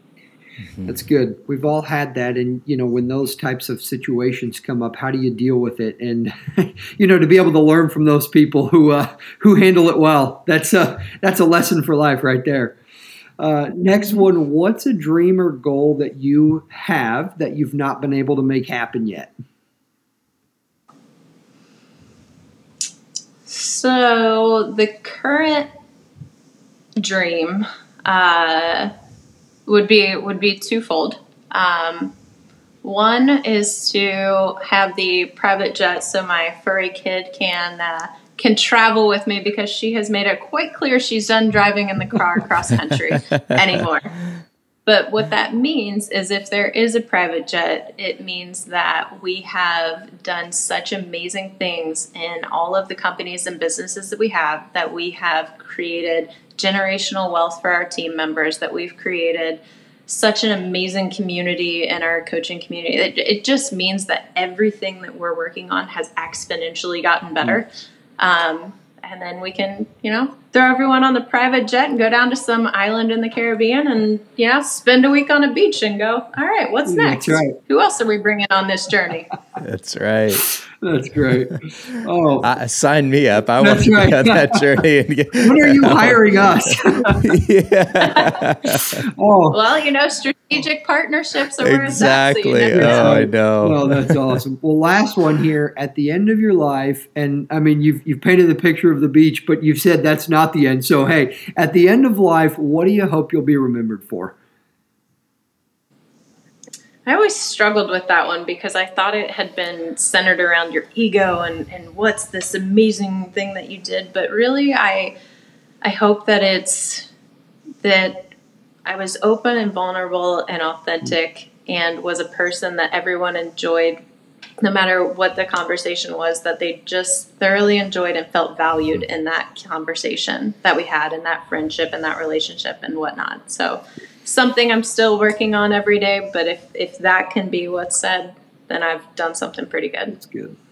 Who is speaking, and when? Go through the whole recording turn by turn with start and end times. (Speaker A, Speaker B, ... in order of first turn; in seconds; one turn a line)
Speaker A: 0.8-12.8
Speaker A: 13.4-19.3
Speaker B: 23.4-25.7
Speaker B: 27.0-28.9
Speaker B: 29.6-32.1
Speaker B: 32.8-44.1
Speaker B: 44.9-67.7
Speaker B: 68.2-79.3
Speaker A: 76.8-77.6
Speaker C: 79.6-80.5
Speaker A: 80.7-82.5
Speaker C: 82.4-89.1
Speaker A: 83.6-84.6
Speaker A: 85.4-87.2
Speaker B: 88.0-88.4
Speaker A: 88.7-89.6
Speaker B: 89.5-93.2
Speaker C: 91.6-94.3
Speaker A: 92.7-104.3
Speaker B: 107.0-115.1
Speaker B: 115.8-117.1
Speaker B: 117.8-118.2
Speaker B: 118.8-124.0
Speaker B: 124.6-140.2
Speaker A: 140.1-140.6